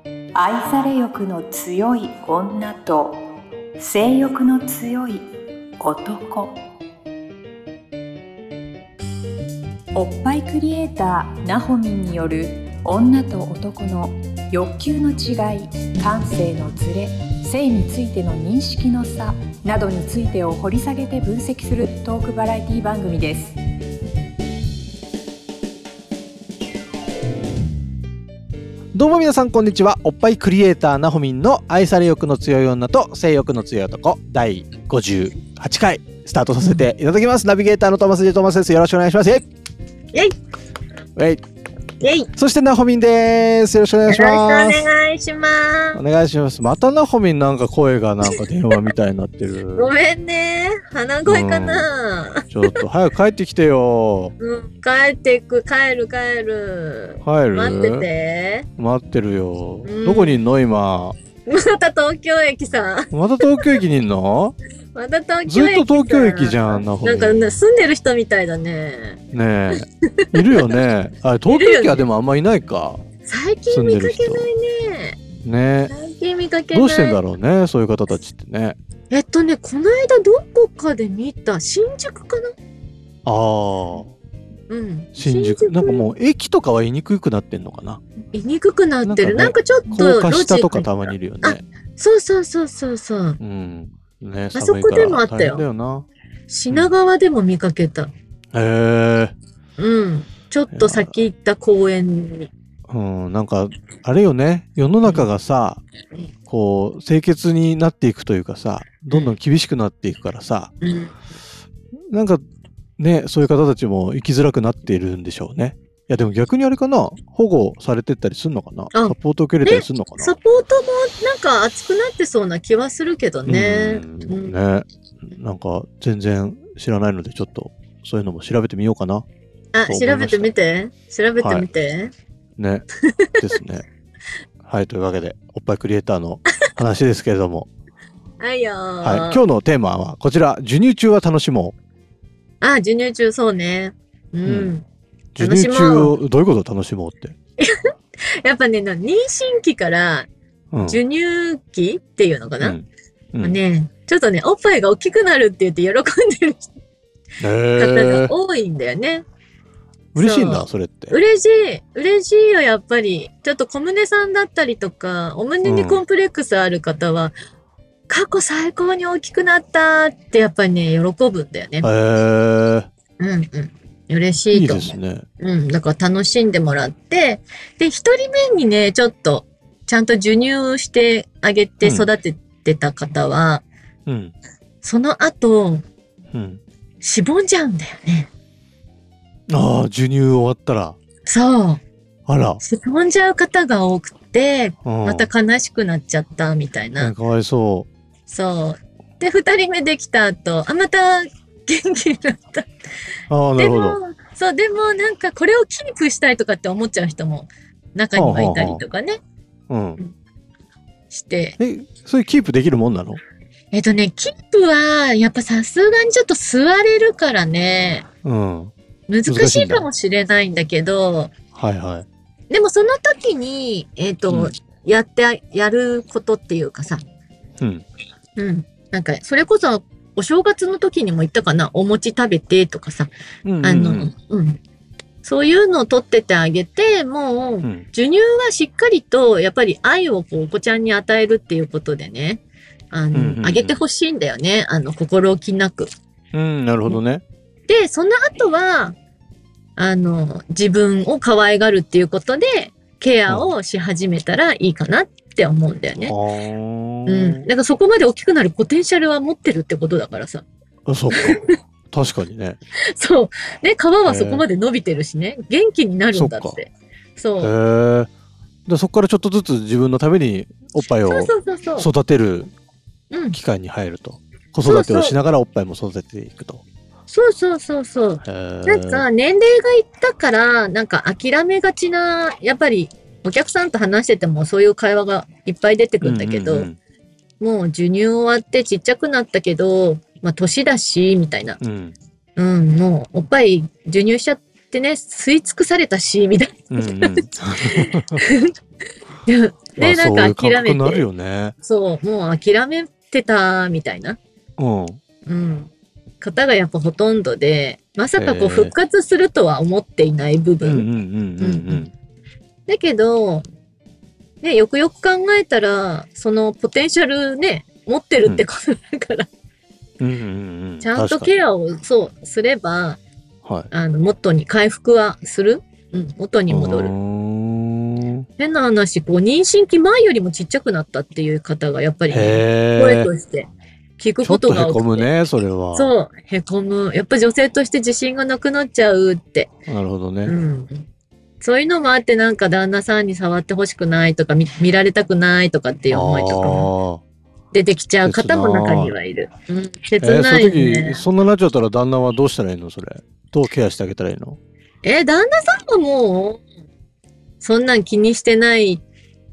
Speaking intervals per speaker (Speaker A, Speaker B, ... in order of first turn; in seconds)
Speaker A: 0.3-3.2, 3.8-5.2, 5.8-6.6, 9.9-23.6
Speaker B: 28.9-39.5, 41.2-41.4, 42.3-44.9, 45.9-49.9, 51.3-51.9, 52.5-54.4, 57.2-58.1, 58.8-61.2, 63.1-64.6, 65.5-67.4, 69.3-73.0, 73.7-74.5, 75.4-75.9, 76.7-78.8, 83.2-84.1, 85.2-88.0, 89.0-91.6, 93.4-96.1, 98.5-99.3, 100.7-101.1, 102.9-105.8, 106.5-110.7, 112.1-112.4, 113.0-120.3, 123.5-129.3, 129.9-130.5, 131.4-131.7, 132.6-132.8, 133.4-133.9, 134.6-137.7, 139.0-141.8, 144.4-144.7, 145.4-147.3, 150.7-151.0, 152.6-153.6, 157.4-158.3, 160.1-161.2, 165.6-166.0, 171.8-172.9, 174.5-175.2, 181.8-182.1, 184.1-184.3, 186.3-186.6, 189.5-191.0, 192.3-192.6, 194.8-195.3, 197.0-197.9, 203.3-204.0, 208.1-208.8, 209.7-210.0, 211.6-213.2, 218.2-218.7, 219.3-219.9, 221.6-222.1, 233.4-234.1, 243.1-243.8, 246.3-247.2, 256.0-257.4, 260.9-261.4, 261.9-262.6, 264.1-264.4, 266.1-266.6, 267.4-268.1, 268.7-272.5, 273.3-276.6, 278.2-279.1, 286.0-286.8, 291.6-291.9, 296.7-298.2, 299.8-301.6, 304.6-305.0, 308.2-308.8, 310.6-311.9, 320.0-321.3, 326.5-328.2, 332.1-333.1, 334.2-335.9, 339.7-340.4, 345.9-347.0, 348.0-348.9, 350.0-354.4
Speaker C: 42.0-42.3, 44.1-46.0, 48.2-48.9, 49.8-52.5, 54.4-58.7, 59.9-60.4, 61.5-63.8, 64.9-69.2, 70.0-70.8, 71.5-72.0, 73.2-75.2, 75.9-77.2, 79.1-82.5, 84.7-86.1, 88.3-93.4, 94.5-95.6, 96.5-98.1, 99.8-102.5, 110.8-111.1, 118.9-124.6, 129.7-132.1, 133.1-133.4, 138.4-139.4, 142.6-144.9, 145.4-146.1, 148.4-150.3, 150.8-152.8, 153.4-156.7, 157.8-159.2, 160.2-167.3, 168.1-171.9, 173.2-183.6, 184.8-185.8, 187.0-188.3, 191.2-191.8, 192.6-197.1, 198.3-202.7, 203.6-209.2, 211.1-211.6, 213.7-218.1, 219.1-221.3, 222.5-227.0, 228.4-233.1, 233.6-234.6, 235.2-245.9, 247.7-249.0, 249.8-256.1, 257.1-260.4, 261.1-261.6, 262.9-267.6, 271.0-271.9, 273.1-273.4, 274.6-275.1, 277.1-286.7, 287.4-291.6, 292.4-297.2, 297.8-298.5, 299.2-301.1, 301.6-304.2, 305.3-310.9, 311.4-311.9, 312.7-313.4, 314.4-319.3, 320.8-323.0, 323.7-326.9, 328.4-335.1, 335.7-339.5, 340.2-340.9, 341.4-346.7, 347.5-351.0, 354.8-356.4, 357.4-358.8